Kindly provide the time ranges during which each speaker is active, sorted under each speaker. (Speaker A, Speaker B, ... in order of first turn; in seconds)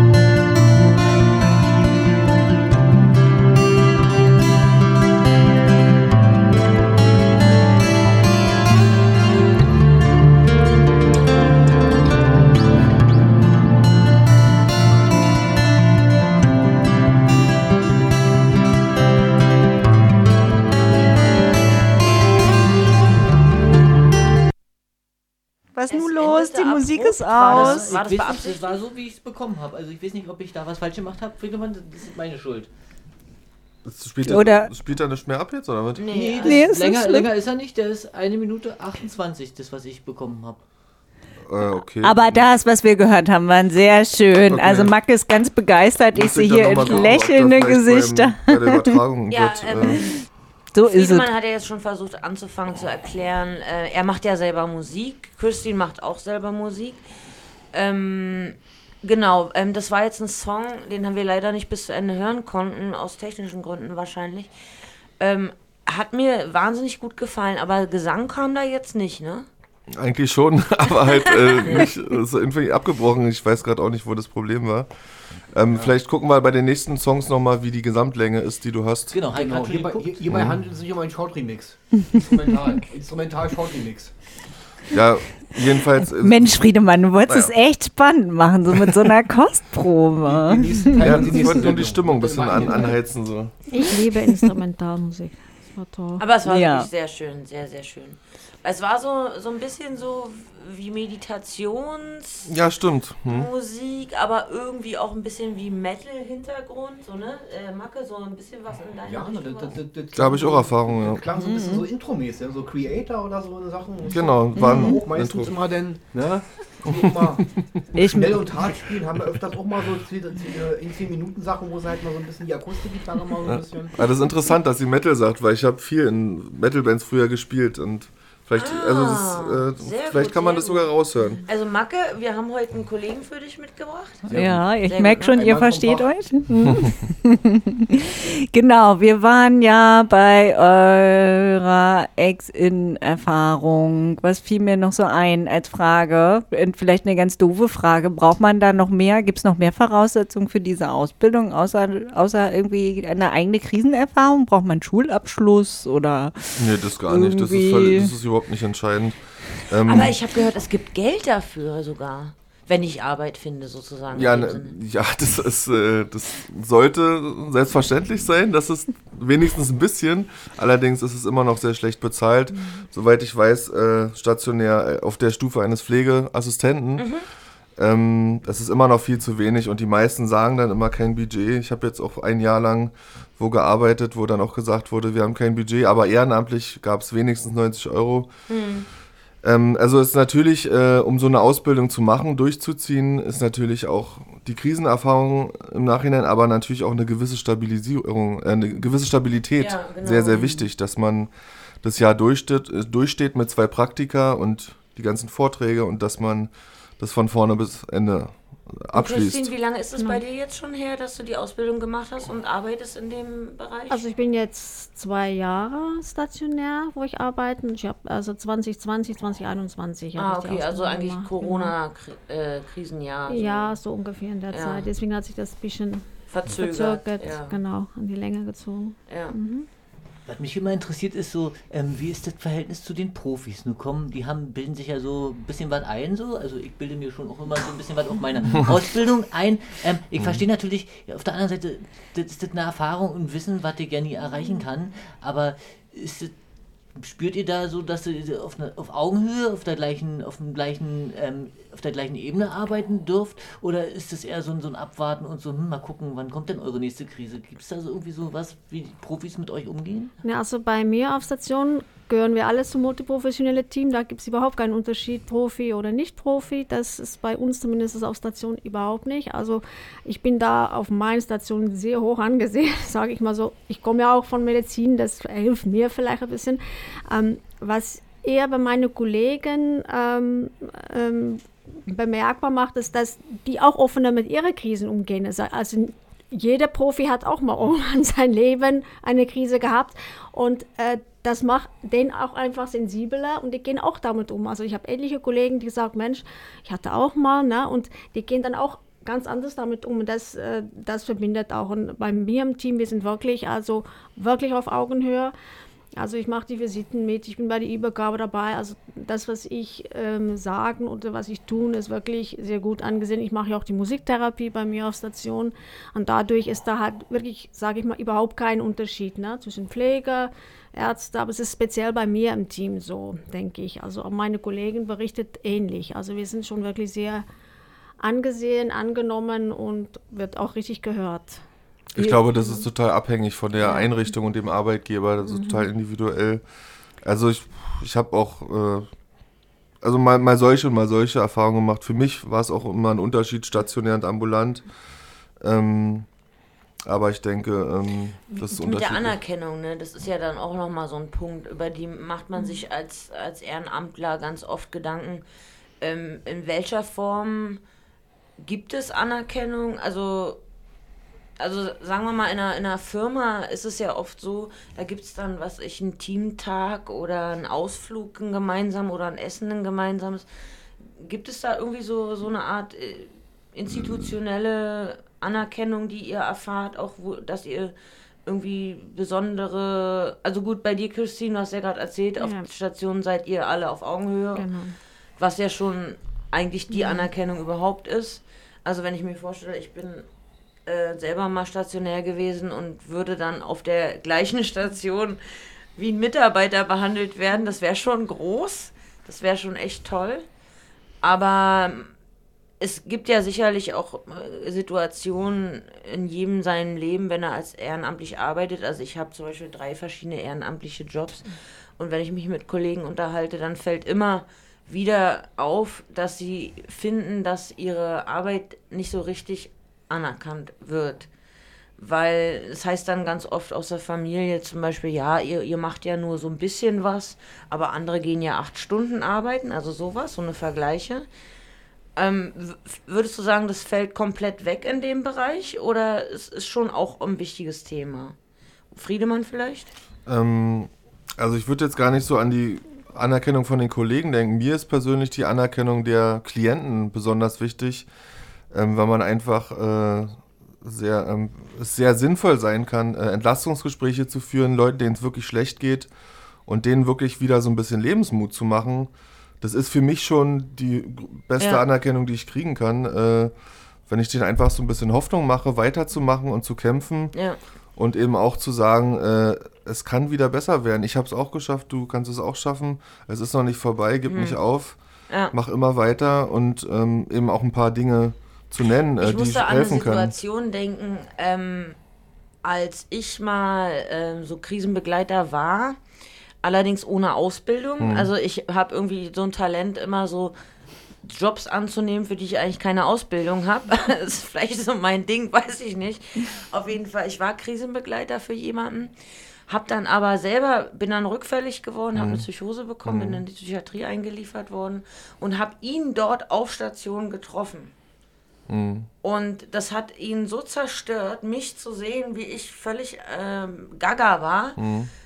Speaker A: 25.8-27.9, 34.2-34.7, 36.4-37.3, 42.0-49.0, 50.0-50.2, 50.8-51.3, 86.2-91.6, 96.5-96.9, 111.3-111.9, 114.6-115.0, 118.0-118.9, 134.3-158.1
Speaker B: 25.9-28.8, 36.0-36.7, 49.3-50.1, 50.8-57.0, 57.7-64.5, 65.2-69.5, 71.1-71.9, 96.2-102.5, 103.3-109.8, 128.6-130.9, 131.4-134.2, 134.8-135.4, 159.9-164.7, 177.0-177.2, 188.5-188.9, 199.6-200.7, 208.9-214.0, 220.2-223.8, 224.5-224.9, 226.3-227.6, 229.1-229.4, 348.3-355.2, 355.8-357.6, 358.4-360.4, 361.4-370.3, 371.0-377.8, 378.3-384.5, 385.2-390.1, 390.7-395.2, 395.8-400.3, 401.0-401.9, 402.6-421.1, 421.8-431.1, 432.0-438.2, 438.7-439.7, 474.1-474.4, 479.0-481.8, 482.4-485.8, 486.4-490.4, 491.0-498.9, 499.5-507.7, 509.0-514.6
Speaker C: 27.5-32.7, 36.1-40.6, 79.1-80.1, 230.3-246.3, 246.9-260.1
Speaker D: 33.9-36.0, 41.5-42.5, 44.5-44.9, 46.1-50.0, 70.0-74.9, 75.5-79.2, 80.3-80.6, 84.9-86.6, 87.3-87.5, 91.0-93.5, 102.5-103.5, 110.2-111.2, 114.1-115.5, 116.9-117.2, 123.5-131.4, 156.6-160.2, 164.1-177.1, 177.8-188.3, 189.4-201.3, 201.8-209.5, 332.0-336.4, 337.0-338.9, 339.8-344.6, 345.4-346.1, 346.9-349.2, 440.1-447.9, 448.5-455.9, 456.5-463.3, 463.9-467.1, 467.8-474.8, 475.3-480.1, 487.8-488.1, 501.9-502.3, 502.9-503.2, 508.5-508.9, 514.6-514.9
Speaker E: 79.3-84.2, 90.2-93.0, 109.0-124.0, 134.3-136.1
Speaker F: 93.7-96.2, 213.9-221.7, 223.3-229.7, 260.2-305.3, 306.0-327.3, 328.0-331.4, 332.0-332.7, 333.6-333.9, 335.2-335.7, 382.2-382.5, 384.4-384.8, 386.7-387.1